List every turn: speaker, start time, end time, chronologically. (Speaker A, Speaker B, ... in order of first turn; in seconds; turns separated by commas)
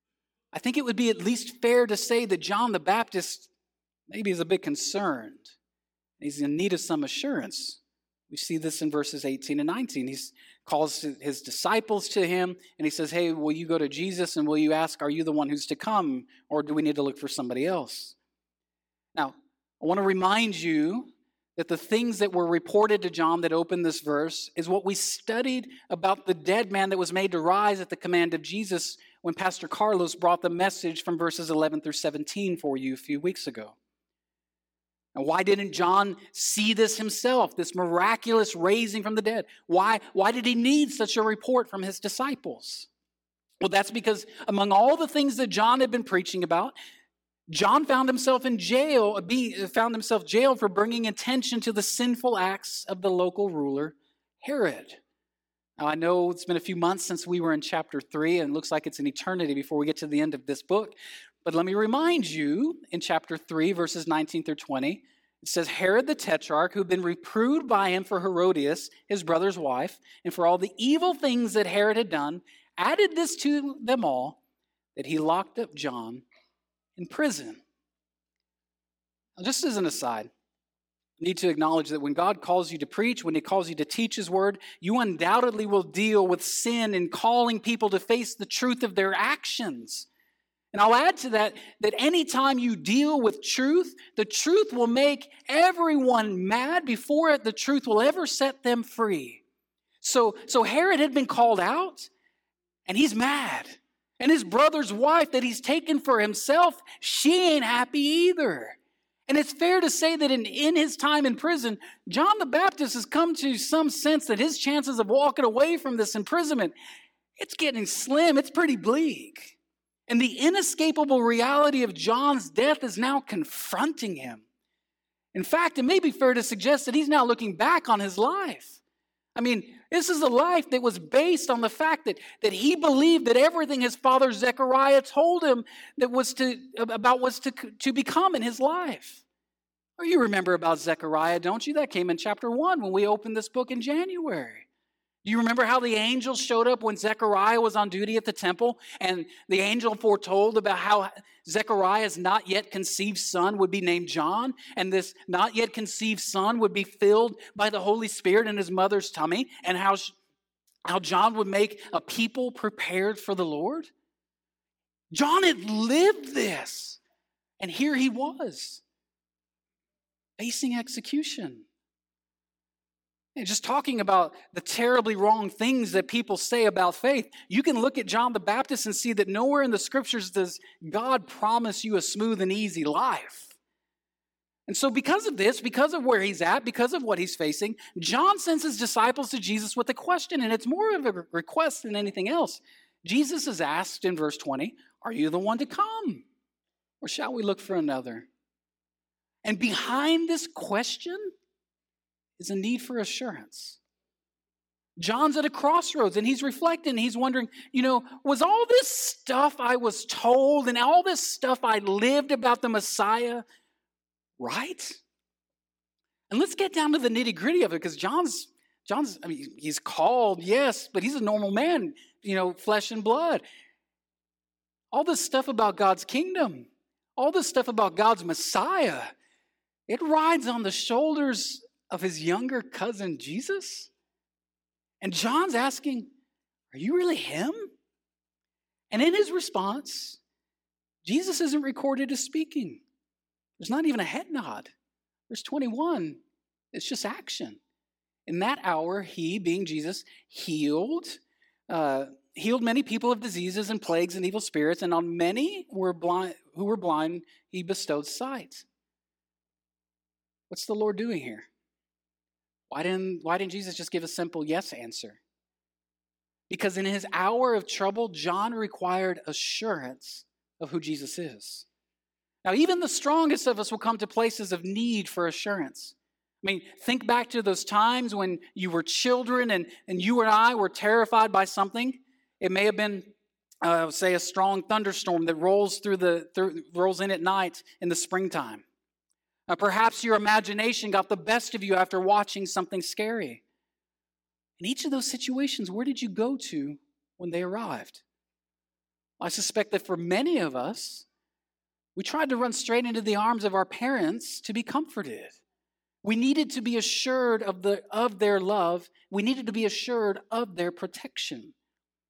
Speaker A: 0.5-3.5, Speaker A: 4.1-5.5, Speaker A: 6.2-18.1, Speaker A: 19.1-33.8, Speaker A: 35.1-42.9, Speaker A: 43.6-46.8, Speaker A: 47.5-55.0, Speaker A: 55.8-74.4, Speaker A: 74.9-76.2, Speaker A: 77.0-77.6, Speaker A: 79.4-80.3, Speaker A: 81.2-90.1, Speaker A: 90.7-99.4, Speaker A: 100.0-102.1, Speaker A: 102.8-108.8, Speaker A: 109.3-116.7, Speaker A: 117.4-119.6, Speaker A: 120.1-124.4, Speaker A: 125.3-128.8, Speaker A: 129.3-139.2, Speaker A: 140.0-144.7, Speaker A: 145.2-160.2, Speaker A: 160.8-163.9, Speaker A: 165.1-167.0, Speaker A: 167.6-168.8, Speaker A: 170.4-171.7, Speaker A: 173.3-183.5, Speaker A: 184.7-196.2, Speaker A: 197.0-198.3, Speaker A: 199.4-201.3, Speaker A: 202.4-203.8, Speaker A: 205.0-213.4, Speaker A: 214.4-215.0, Speaker A: 216.3-223.4, Speaker A: 224.9-229.1, Speaker A: 229.9-233.9, Speaker A: 235.0-236.1, Speaker A: 236.7-237.7, Speaker A: 238.9-240.2, Speaker A: 241.0-242.8, Speaker A: 243.6-244.7, Speaker A: 245.3-246.2, Speaker A: 246.7-247.6, Speaker A: 248.2-258.6, Speaker A: 260.5-261.5, Speaker A: 262.7-265.2, Speaker A: 266.5-271.6, Speaker A: 272.4-288.6, Speaker A: 289.5-293.4, Speaker A: 294.6-298.0, Speaker A: 299.2-301.1, Speaker A: 301.9-305.4, Speaker A: 306.0-311.5